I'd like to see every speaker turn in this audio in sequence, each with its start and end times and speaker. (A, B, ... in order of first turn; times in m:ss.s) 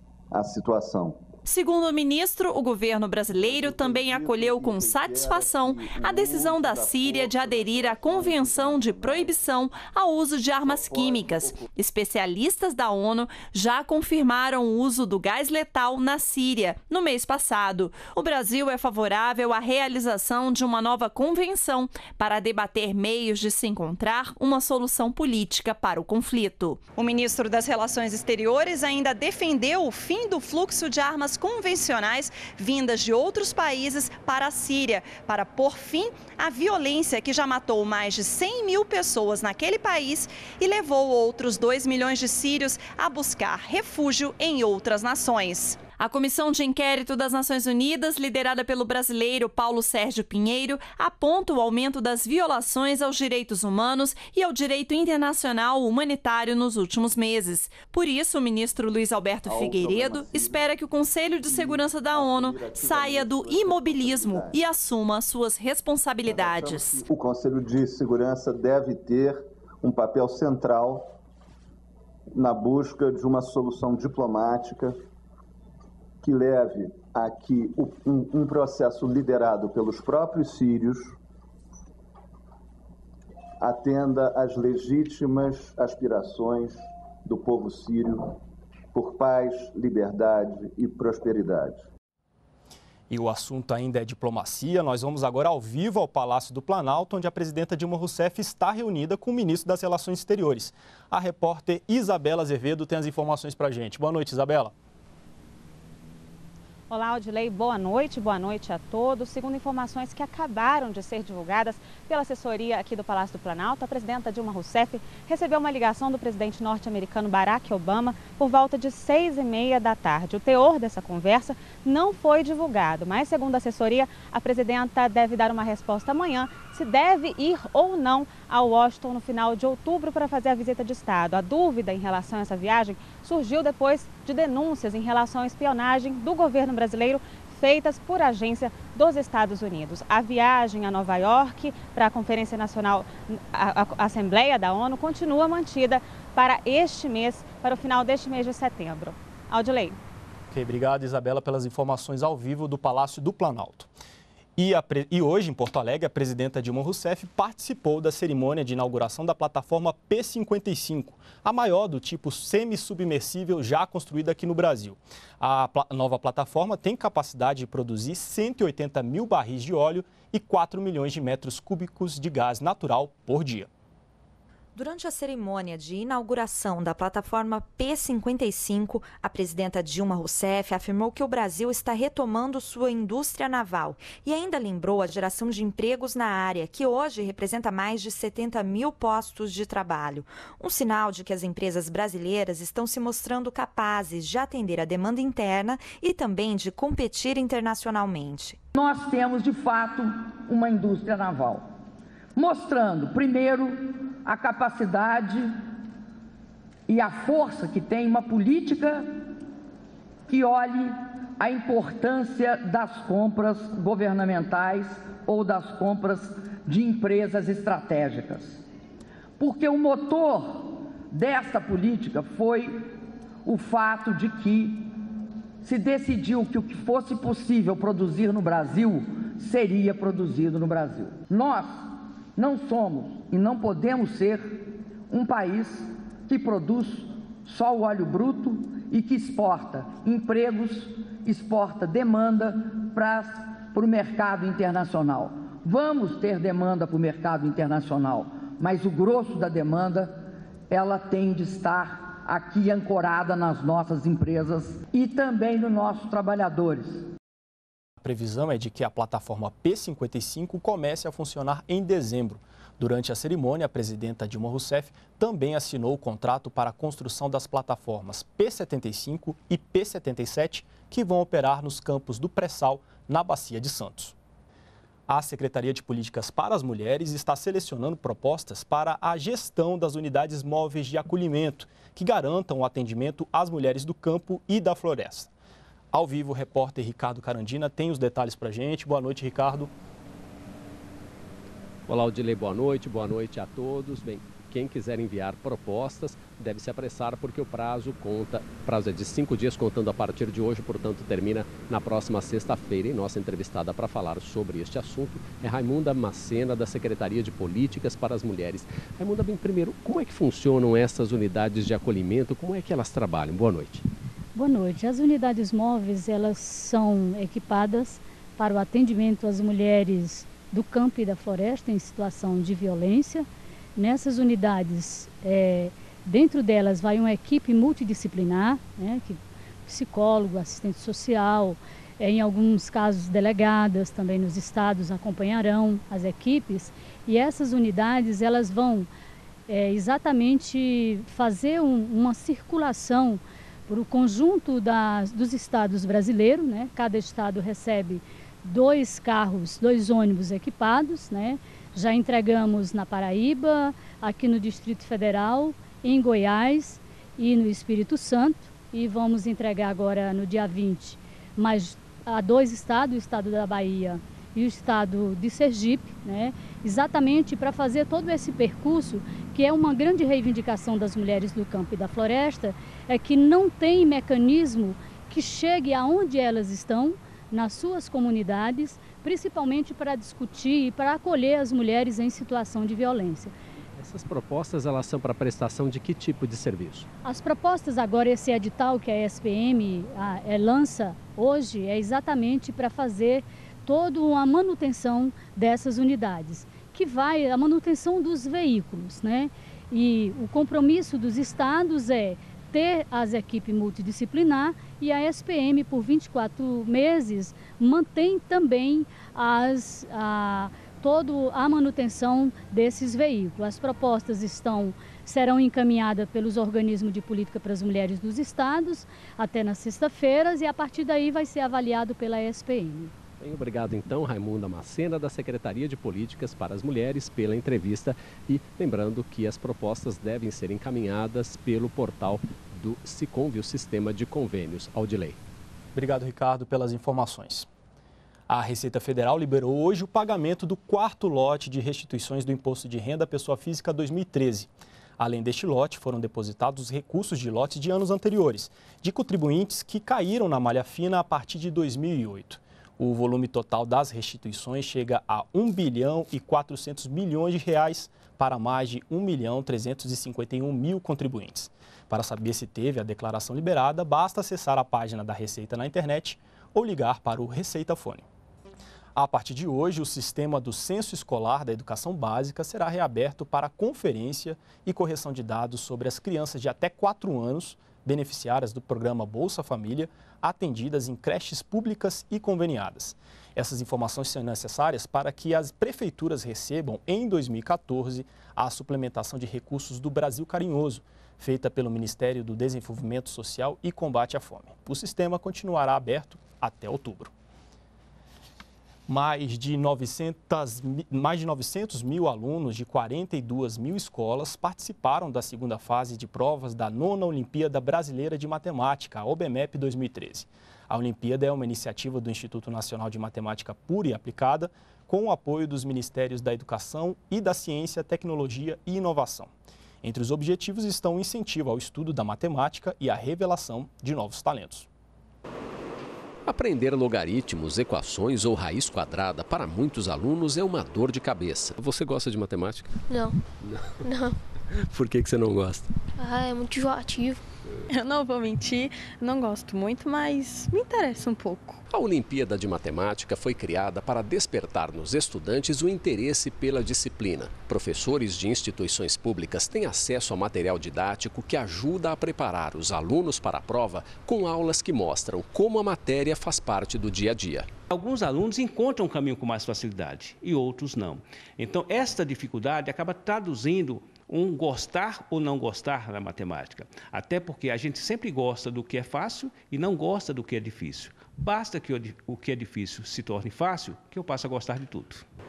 0:00.3-0:01.2 A
0:01.4-1:07.0 B
0:03.3-0:09.4 A
0:10.6-0:11.7 A
0:59.4-1:00.6 A
1:01.5-1:04.6 A
1:06.2-1:11.1 A
1:12.3-1:14.9 A
1:16.2-1:21.1 A
1:23.6-1:28.3 A
1:28.9-1:31.9 A
1:33.1-1:44.7 C
1:46.9-2:30.0 D
2:30.5-2:33.9 C
2:34.6-2:53.7 C
2:54.7-3:18.6 E
3:18.7-3:21.7 F
3:22.4-3:25.6 F
3:26.9-3:29.2 F
3:30.3-3:38.6 F
3:39.4-3:42.9 F
3:43.4-3:44.9 F
3:45.6-4:17.0 F
4:18.0-4:34.1 C
4:35.1-4:45.3 C
4:45.9-4:49.7 C
4:51.9-5:13.8 G
5:14.3-5:38.9 H
5:39.5-6:23.3 H
6:23.8-6:26.9 G
6:27.0-7:02.9 H
7:03.2-7:15.2 G
7:15.7-7:17.5 C
7:18.3-7:48.0 C
7:48.9-8:17.1 C
8:18.9-8:39.3 C
8:39.8-8:44.7 C
8:46.3-8:52.8 G
8:52.9-8:53.2 I
8:53.4-8:53.8 G
8:53.8-8:54.2 I
8:54.5-8:55.7 G
8:56.0-8:57.2 I
8:57.7-9:01.6 J
9:01.7-9:17.5 G
9:17.7-9:35.0 K